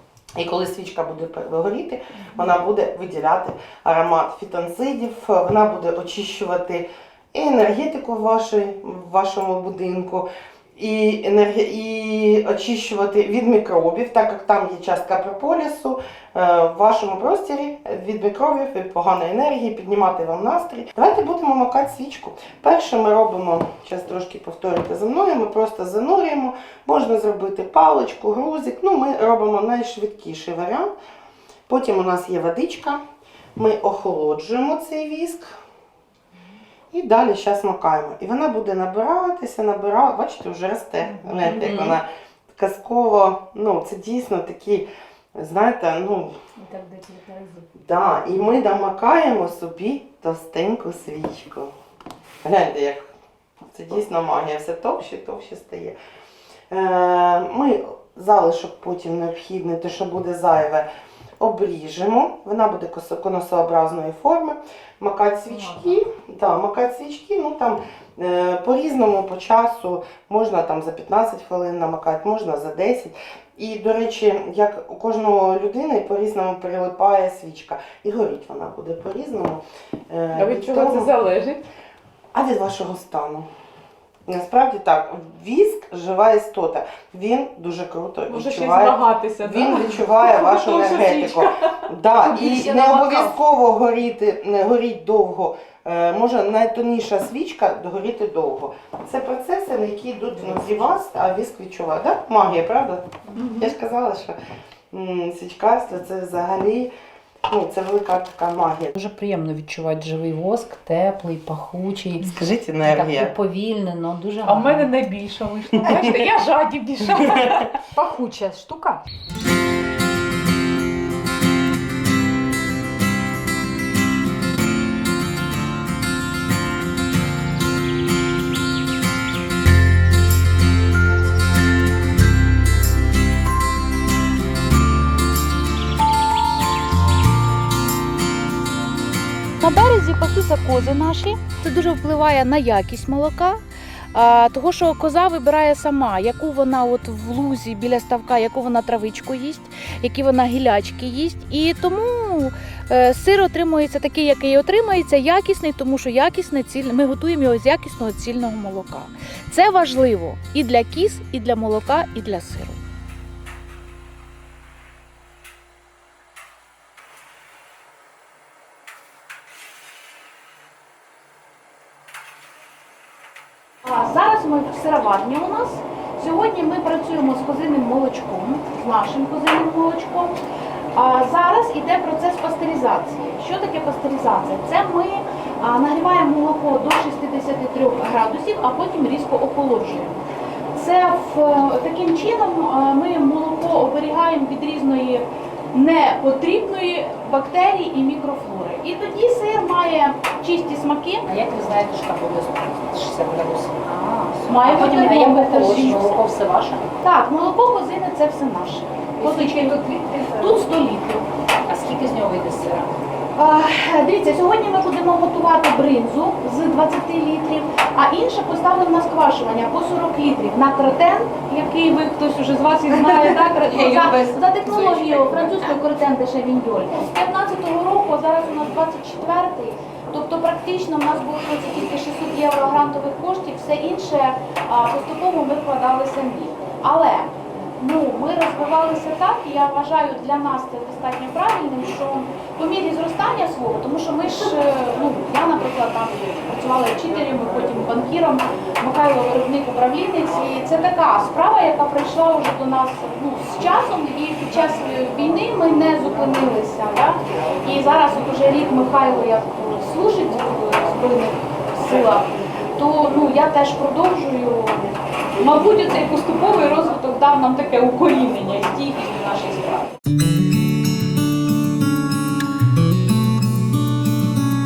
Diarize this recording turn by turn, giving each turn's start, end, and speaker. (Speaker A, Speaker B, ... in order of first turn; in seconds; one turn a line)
Speaker A: 0.3-30.9
Speaker A: 31.7-33.0
Speaker A: 33.6-35.5
Speaker A: 36.9-46.3
Speaker B: 41.4-42.0
Speaker B: 46.6-47.0
Speaker A: 47.8-51.7
Speaker A: 52.4-53.1
Speaker A: 53.7-56.0
Speaker A: 56.7-60.9
Speaker A: 61.4-81.1
Speaker B: 65.5-66.0
Speaker C: 80.3-81.6
Speaker A: 82.3-83.5
Speaker A: 84.3-104.4
Speaker C: 88.3-92.9
Speaker D: 92.6-93.4
Speaker A: 104.9-106.9
Speaker A: 107.5-108.9
Speaker B: 109.0-115.0
Speaker A: 112.2-113.3
Speaker C: 114.5-117.7
Speaker B: 115.7-116.5
Speaker B: 117.9-119.0
Speaker D: 139.6-143.6
Speaker D: 144.1-162.8
Speaker D: 173.8-180.3
Speaker D: 180.9-190.2
Speaker D: 190.8-201.3
Speaker B: 201.3-206.8
Speaker D: 203.9-206.2
Speaker D: 207.0-209.8
Speaker B: 209.2-210.6
Speaker D: 210.3-211.3
Speaker B: 211.7-212.9
Speaker D: 213.3-269.9
Speaker C: 223.5-225.6